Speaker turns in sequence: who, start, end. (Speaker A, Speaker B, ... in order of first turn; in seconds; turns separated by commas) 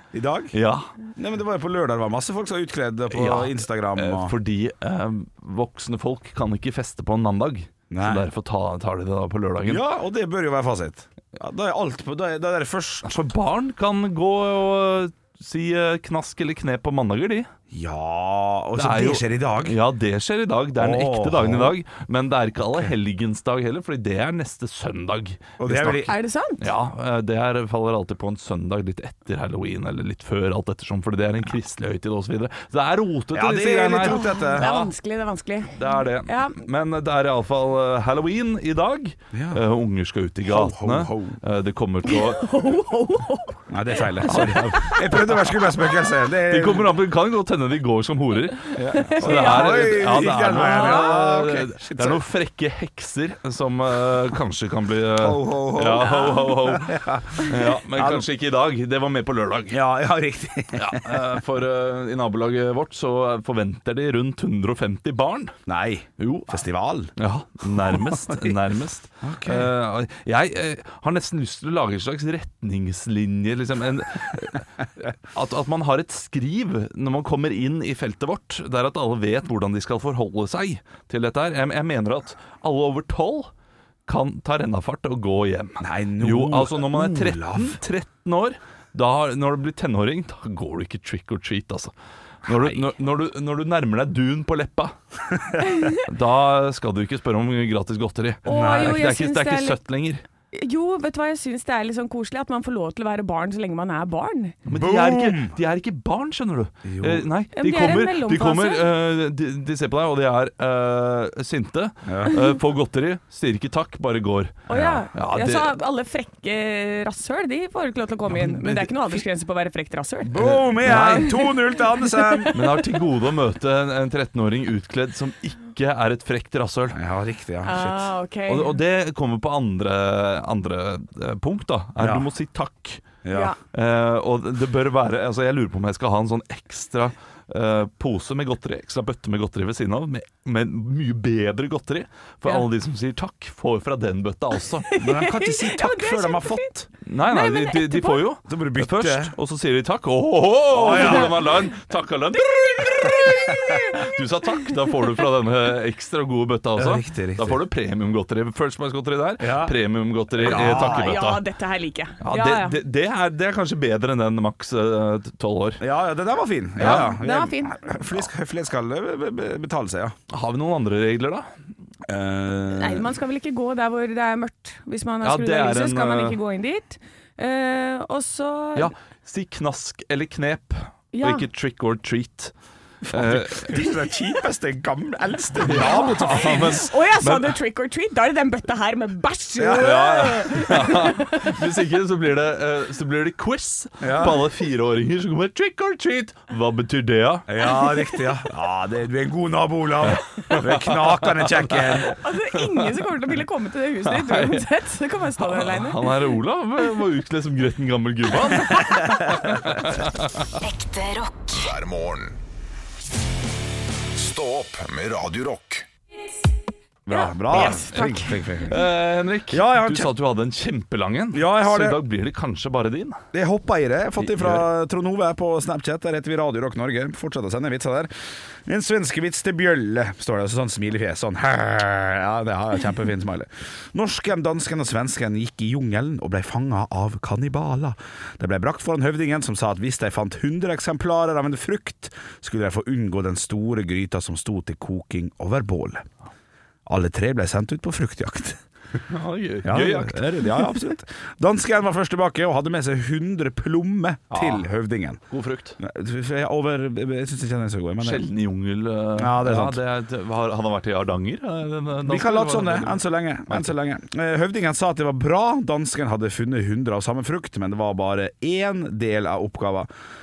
Speaker A: 0.1-0.6, Speaker B: 0.5-0.9, Speaker A: 1.2-4.3, Speaker B: 3.1-9.8, Speaker A: 7.9-8.3, Speaker A: 9.7-13.1, Speaker B: 13.1-17.5, Speaker A: 17.7-19.8, Speaker B: 18.8-34.9, Speaker A: 20.8-21.8, Speaker A: 22.7-22.9, Speaker A: 25.6-26.1, Speaker C: 26.1-26.7, Speaker A: 33.3-34.7, Speaker C: 34.0-36.6, Speaker B: 35.8-42.5, Speaker A: 39.3-39.6, Speaker A: 40.5-41.4, Speaker C: 42.1-43.7, Speaker A: 43.7-47.0, Speaker B: 44.2-59.8, Speaker A: 48.8-52.2, Speaker C: 48.9-51.2, Speaker A: 55.2-58.3, Speaker A: 59.7-61.2, Speaker B: 60.8-65.5, Speaker A: 65.7-67.1, Speaker B: 66.2-66.6, Speaker B: 67.2-83.5, Speaker A: 67.9-68.5, Speaker A: 69.2-69.7, Speaker B: 84.1-91.9, Speaker A: 85.8-87.8, Speaker B: 92.5-94.9, Speaker A: 92.5-92.8, Speaker C: 95.7-96.0, Speaker B: 95.9-100.2, Speaker C: 98.5-99.8, Speaker A: 98.5-99.0, Speaker C: 100.5-104.6, Speaker B: 104.7-115.7, Speaker A: 104.7-105.6, Speaker A: 106.8-107.3, Speaker C: 107.5-108.9, Speaker A: 112.1-112.4, Speaker C: 114.7-121.5, Speaker B: 118.3-119.1, Speaker A: 120.2-122.6, Speaker B: 120.4-121.5, Speaker C: 122.2-122.7, Speaker B: 122.5-127.0, Speaker A: 126.9-128.1, Speaker C: 127.6-128.8, Speaker B: 128.5-133.1, Speaker A: 132.0-132.3, Speaker A: 133.2-133.5, Speaker C: 133.3-133.6, Speaker B: 133.7-144.9, Speaker C: 144.9-146.7, Speaker A: 145.0-146.9, Speaker B: 147.0-161.4, Speaker C: 147.3-148.2, Speaker A: 148.5-149.3, Speaker A: 150.7-151.5, Speaker C: 150.9-151.4, Speaker C: 152.6-154.1, Speaker A: 156.8-157.6, Speaker A: 159.4-159.8, Speaker A: 160.4-161.2, Speaker C: 160.4-162.8, Speaker B: 162.2-165.8, Speaker A: 165.8-170.2, Speaker B: 166.8-167.1, Speaker C: 166.8-168.0, Speaker B: 170.3-171.5, Speaker A: 172.1-173.1, Speaker C: 172.7-178.9, Speaker B: 175.2-176.4, Speaker B: 178.8-182.5, Speaker C: 181.1-181.5, Speaker A: 183.1-186.8, Speaker B: 183.1-183.8, Speaker B: 185.6-187.6, Speaker C: 185.7-191.5, Speaker A: 189.6-190.1, Speaker B: 189.7-197.5, Speaker A: 194.0-194.4, Speaker A: 197.5-202.2, Speaker C: 197.6-198.2, Speaker B: 200.1-203.0, Speaker C: 202.1-206.2, Speaker B: 204.1-204.7, Speaker B: 205.4-210.6, Speaker A: 209.1-209.6, Speaker D: 210.6-212.4, Speaker D: 214.1-215.9, Speaker A: 217.1-218.8, Speaker C: 217.1-218.4, Speaker B: 217.5-223.2, Speaker A: 219.5-220.1, Speaker A: 221.3-222.0, Speaker A: 223.3-228.1, Speaker B: 224.2-224.7, Speaker A: 228.7-246.1, Speaker A: 246.9-248.6, Speaker B: 249.1-250.3, Speaker A: 249.6-255.2, Speaker B: 254.3-254.7, Speaker B: 255.3-255.8, Speaker A: 255.8-258.2, Speaker B: 258.0-263.7, Speaker A: 259.2-259.8, Speaker A: 262.1-269.9